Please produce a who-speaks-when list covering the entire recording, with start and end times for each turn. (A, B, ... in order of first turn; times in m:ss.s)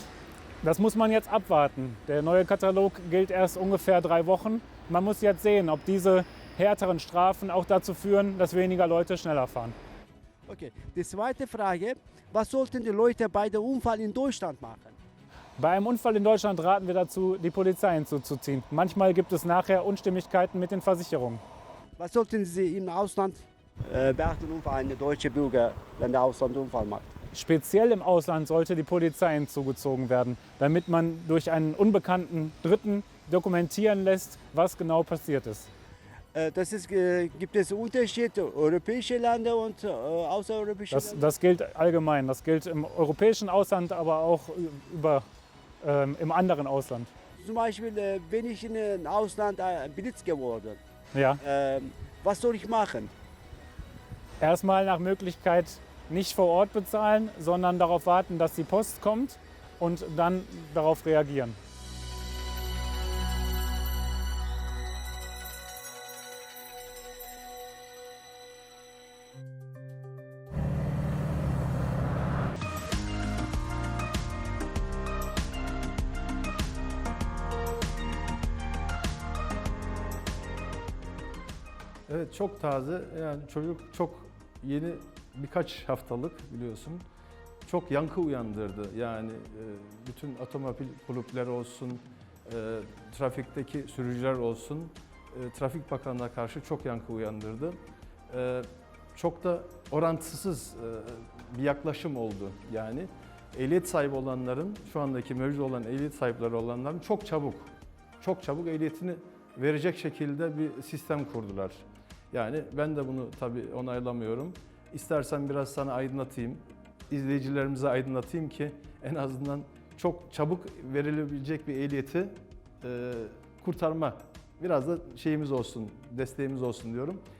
0:00.6-0:09.7 A
0:10.5-0:15.0 B
0:15.6-0:21.4 A
0:22.0-0:27.1 B
0:27.3-0:35.7 A
0:36.3-0:41.2 B
0:40.9-0:45.2 A
0:45.8-0:47.1 A
0:47.4-0:50.8 B
0:51.1-0:51.4 A
0:51.4-0:53.1 B
0:54.4-1:01.6 A
1:22.1-1:27.0 C
1:27.6-1:37.8 C
1:38.3-2:07.2 C